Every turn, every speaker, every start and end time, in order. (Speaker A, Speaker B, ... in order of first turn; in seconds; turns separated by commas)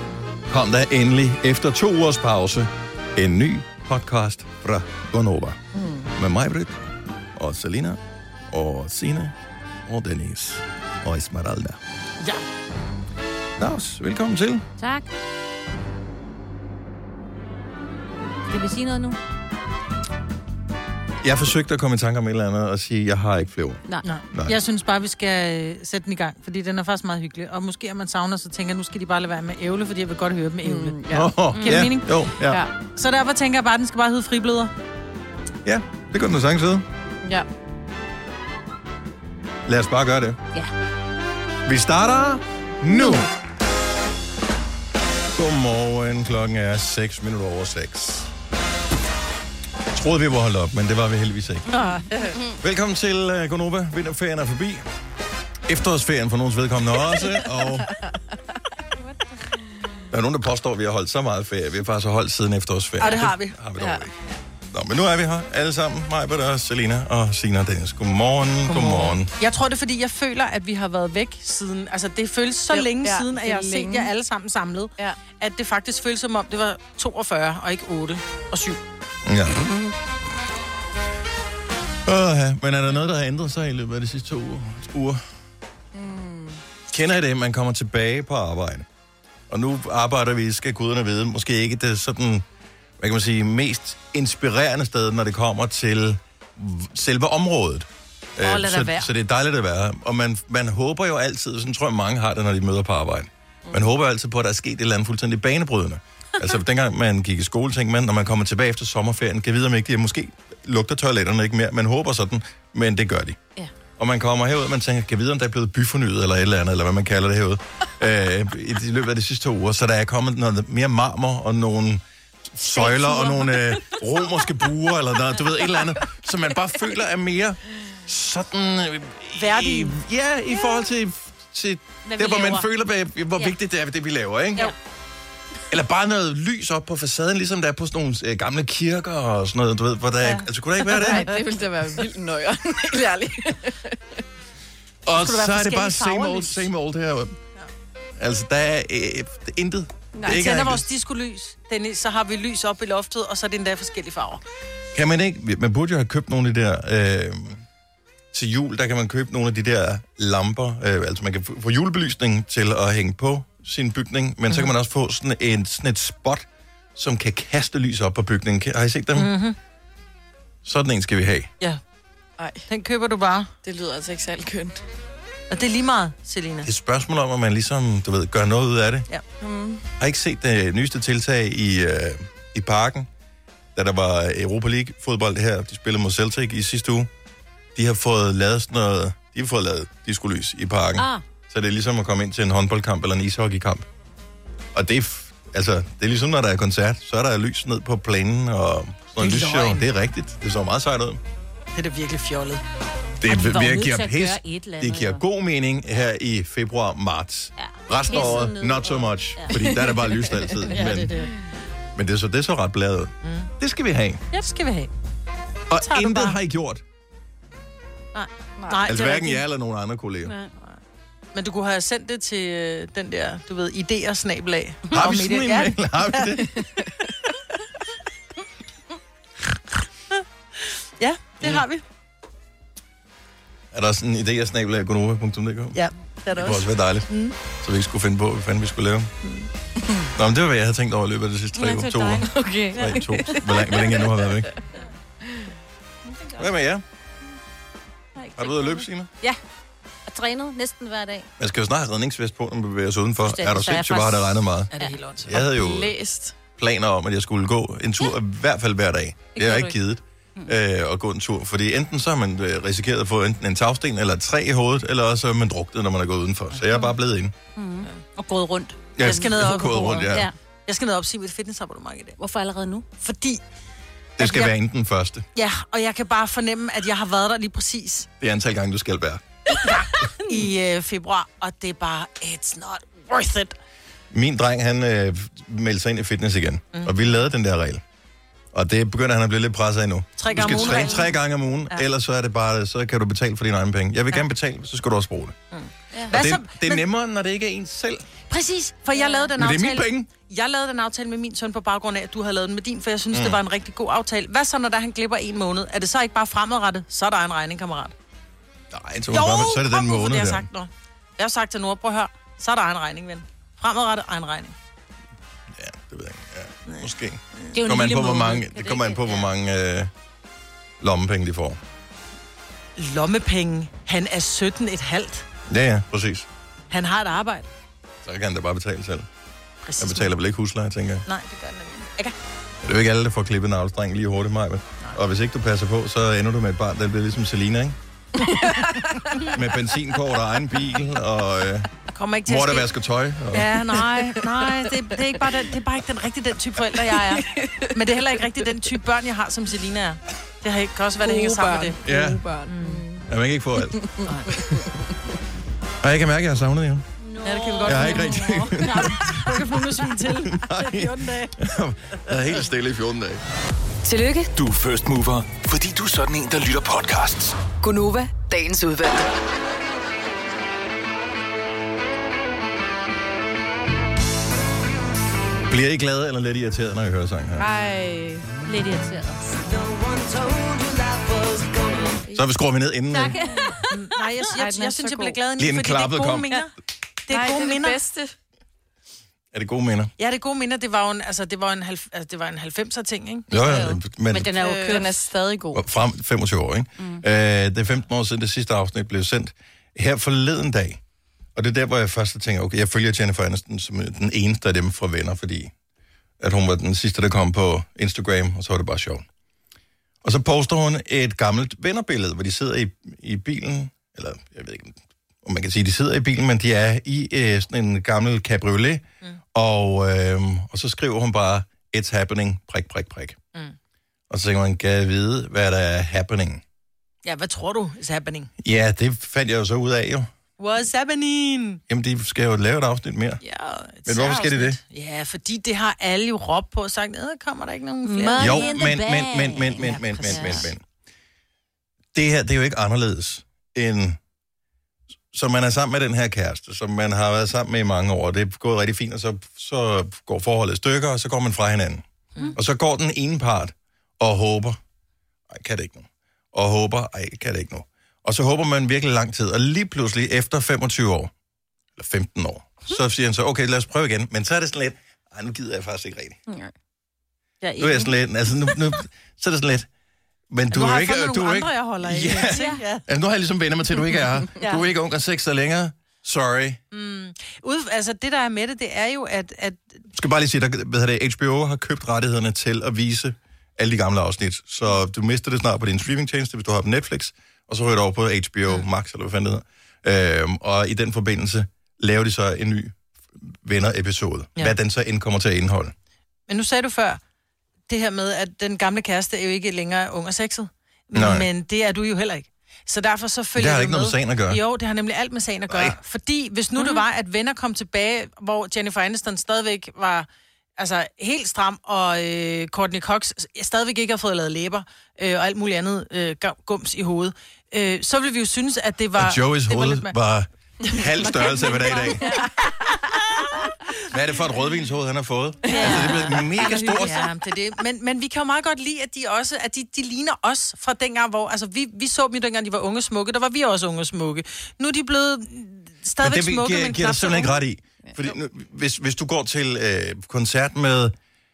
Speaker A: 0.5-5.6, Speaker B: 5.7-6.1, Speaker A: 6.2-6.8, Speaker A: 7.4-9.3, Speaker A: 9.9-11.8, Speaker A: 13.6-14.7, Speaker C: 14.8-15.1, Speaker C: 18.5-19.2, Speaker A: 21.2-24.6, Speaker D: 24.0-31.0, Speaker B: 30.6-31.3, Speaker A: 31.1-32.6, Speaker C: 31.6-31.9, Speaker D: 31.6-32.1, Speaker D: 33.0-34.7, Speaker A: 35.7-36.9, Speaker A: 39.7-40.4, Speaker A: 41.7-43.3, Speaker A: 45.4-48.3, Speaker A: 49.9-51.7, Speaker A: 52.6-54.9, Speaker A: 55.7-57.9, Speaker A: 60.1-64.1, Speaker D: 63.0-63.5, Speaker B: 63.8-64.1, Speaker A: 64.7-69.3, Speaker D: 68.7-78.8, Speaker B: 72.7-74.1, Speaker A: 79.3-79.7, Speaker A: 82.1-85.2, Speaker B: 85.9-86.6, Speaker A: 86.9-88.9, Speaker A: 89.5-92.4, Speaker A: 93.0-113.4, Speaker D: 98.4-99.1, Speaker A: 114.0-134.7, Speaker C: 122.7-123.6, Speaker D: 129.4-129.9, Speaker C: 132.1-132.7, Speaker A: 135.7-141.3, Speaker D: 140.2-141.2, Speaker B: 141.0-144.0, Speaker A: 145.1-147.4, Speaker D: 145.2-146.7, Speaker A: 148.2-150.9, Speaker B: 150.2-150.4, Speaker D: 150.2-154.4, Speaker A: 154.9-157.6, Speaker A: 158.3-169.3, Speaker D: 169.2-169.6, Speaker A: 170.6-171.5, Speaker D: 172.7-173.5, Speaker B: 173.6-174.8, Speaker D: 175.5-176.7, Speaker A: 176.6-179.1, Speaker B: 179.4-179.8, Speaker A: 180.0-183.1, Speaker A: 183.8-187.1, Speaker A: 187.8-193.9, Speaker C: 191.0-191.2, Speaker A: 194.7-201.2, Speaker D: 199.2-199.9, Speaker D: 201.7-202.6, Speaker A: 203.2-211.2, Speaker C: 203.3-205.2, Speaker C: 207.6-209.5, Speaker B: 209.5-210.6, Speaker D: 210.7-211.3, Speaker A: 212.0-214.2, Speaker D: 213.2-213.5, Speaker D: 214.3-214.9, Speaker A: 215.7-216.8, Speaker D: 215.8-216.4, Speaker D: 218.1-219.4, Speaker A: 218.9-220.4, Speaker D: 221.3-226.4, Speaker A: 224.9-226.5, Speaker B: 226.6-226.9, Speaker D: 230.6-231.8, Speaker A: 233.7-235.8, Speaker D: 235.8-237.3, Speaker A: 236.3-239.1, Speaker A: 240.2-244.5, Speaker C: 241.6-242.3, Speaker B: 242.3-243.8, Speaker C: 246.1-246.4, Speaker A: 246.4-246.8, Speaker C: 248.2-249.4, Speaker A: 248.4-249.1, Speaker C: 250.1-251.3, Speaker A: 251.4-255.9, Speaker C: 253.3-254.9, Speaker D: 254.7-255.4, Speaker B: 255.3-256.3, Speaker A: 256.6-267.3, Speaker C: 259.4-259.8, Speaker C: 266.7-266.9, Speaker C: 267.6-269.5, Speaker A: 269.0-270.3, Speaker D: 269.0-272.2, Speaker C: 270.1-270.3, Speaker C: 272.2-272.9, Speaker D: 273.0-273.4, Speaker A: 274.2-275.2, Speaker D: 275.4-278.1, Speaker A: 278.2-279.2, Speaker D: 279.7-283.6, Speaker A: 284.1-287.8, Speaker A: 288.5-295.4, Speaker D: 290.2-291.1, Speaker C: 290.4-291.0, Speaker D: 295.5-296.9, Speaker A: 296.1-298.0, Speaker D: 298.3-307.9, Speaker C: 298.9-299.3, Speaker A: 299.4-300.1, Speaker A: 303.1-303.4, Speaker A: 308.7-310.5, Speaker D: 309.1-314.6, Speaker A: 315.6-319.9, Speaker C: 317.5-319.3, Speaker A: 320.8-321.6, Speaker D: 322.8-325.3, Speaker A: 325.5-326.3, Speaker D: 326.7-327.5, Speaker A: 328.1-329.1, Speaker D: 329.6-330.1, Speaker A: 329.8-331.0, Speaker D: 331.1-332.1, Speaker A: 332.6-337.8, Speaker B: 338.2-339.2, Speaker A: 339.3-341.7, Speaker D: 341.9-342.7, Speaker A: 342.3-343.8, Speaker D: 343.3-351.8, Speaker B: 346.8-347.7, Speaker B: 351.0-353.1, Speaker A: 351.8-352.2, Speaker D: 352.5-352.9, Speaker A: 353.1-353.8, Speaker B: 353.8-354.7, Speaker D: 354.1-354.5, Speaker A: 355.8-356.8, Speaker C: 357.0-358.2, Speaker D: 357.2-361.3, Speaker A: 357.6-359.4, Speaker A: 360.2-363.2, Speaker E: 363.9-364.3, Speaker F: 364.3-367.4, Speaker E: 367.6-369.1, Speaker A: 375.5-377.5, Speaker B: 377.4-378.3, Speaker C: 378.4-379.6, Speaker A: 382.1-383.2, Speaker C: 382.9-383.6, Speaker D: 383.7-386.5, Speaker B: 384.4-385.2, Speaker A: 385.4-386.4, Speaker D: 387.1-387.8, Speaker B: 387.1-388.1, Speaker A: 389.3-389.9, Speaker D: 390.0-393.3, Speaker A: 393.3-394.3, Speaker C: 393.4-394.9, Speaker D: 394.4-394.9, Speaker B: 394.5-395.6, Speaker A: 395.5-400.8, Speaker A: 401.4-405.5, Speaker A: 406.2-409.1, Speaker A: 410.0-423.2, Speaker A: 424.1-426.4, Speaker D: 427.1-428.3, Speaker A: 428.4-430.1, Speaker D: 430.4-431.6, Speaker A: 431.7-433.2, Speaker D: 433.2-438.6, Speaker A: 433.9-434.6, Speaker C: 437.9-440.5, Speaker A: 438.2-440.6, Speaker D: 440.0-440.3, Speaker A: 441.9-444.0, Speaker A: 445.1-451.8, Speaker A: 452.3-454.6, Speaker A: 455.3-461.1, Speaker A: 461.8-466.2, Speaker D: 467.4-467.8, Speaker A: 467.6-469.7, Speaker A: 470.3-476.6, Speaker D: 470.5-472.9, Speaker C: 472.3-472.6, Speaker D: 476.7-479.8, Speaker A: 479.9-495.7, Speaker D: 496.3-497.0, Speaker D: 497.7-519.9, Speaker A: 500.9-501.3, Speaker A: 503.4-504.4, Speaker A: 505.5-505.8, Speaker A: 519.0-522.0, Speaker D: 521.2-521.9, Speaker B: 521.7-522.9, Speaker A: 523.9-527.1, Speaker C: 525.5-526.1, Speaker D: 525.6-537.4, Speaker A: 536.0-540.9